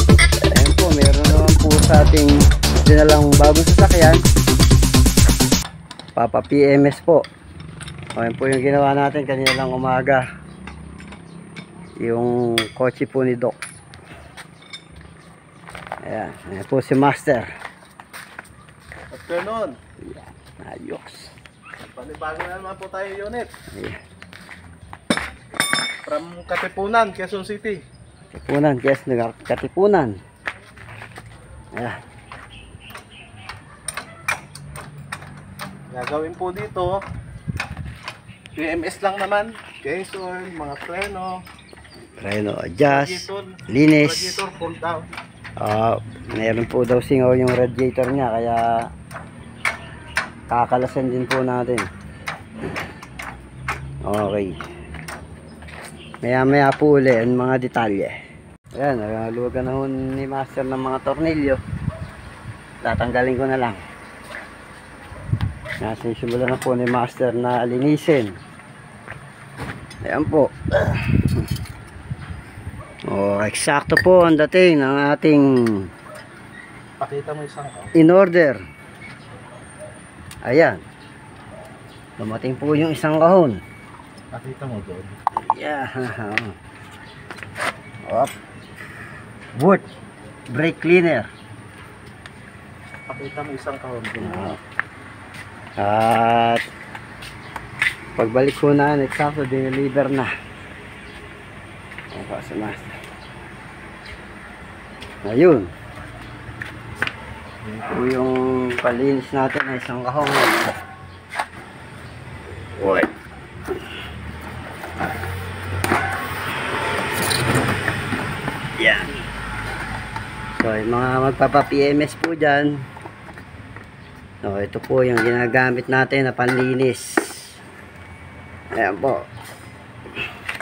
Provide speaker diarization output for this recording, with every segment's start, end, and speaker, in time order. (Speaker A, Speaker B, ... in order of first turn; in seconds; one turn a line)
Speaker A: 0.5-4.2
Speaker A: 6.2-7.3
Speaker A: 8.2-10.2
Speaker A: 12.0-13.6
Speaker A: 16.0-17.5
Speaker B: 19.1-19.8
Speaker A: 20.1-21.3
Speaker B: 21.9-23.5
Speaker A: 23.7-24.0
Speaker B: 26.1-27.8
Speaker A: 28.3-30.2
Speaker A: 31.7-32.0
Speaker B: 35.9-37.0
Speaker B: 38.5-41.4
Speaker A: 42.2-44.4
Speaker B: 42.8-45.1
Speaker A: 45.6-48.9
Speaker A: 50.5-51.9
Speaker A: 54.1-54.6
Speaker A: 56.2-58.1
Speaker A: 58.8-61.6
Speaker A: 62.8-63.8
Speaker A: 65.8-68.4
Speaker A: 70.0-71.4
Speaker A: 73.1-75.9
Speaker B: 77.0-77.9
Speaker A: 77.9-78.6
Speaker A: 80.4-80.8
Speaker A: 82.2-83.6
Speaker B: 84.3-85.2
Speaker A: 85.5-86.5
Speaker A: 88.0-88.3
Speaker A: 89.5-89.8
Speaker A: 90.5-91.3
Speaker B: 93.1-94.5
Speaker A: 94.2-94.6
Speaker A: 95.8-96.6
Speaker A: 98.2-100.3
Speaker A: 102.1-102.9
Speaker A: 105.2-105.7
Speaker A: 107.8-110.8
Speaker A: 112.8-113.1
Speaker A: 118.8-119.2
Speaker A: 120.6-122.8
Speaker A: 124.4-127.6
Speaker A: 128.8-129.3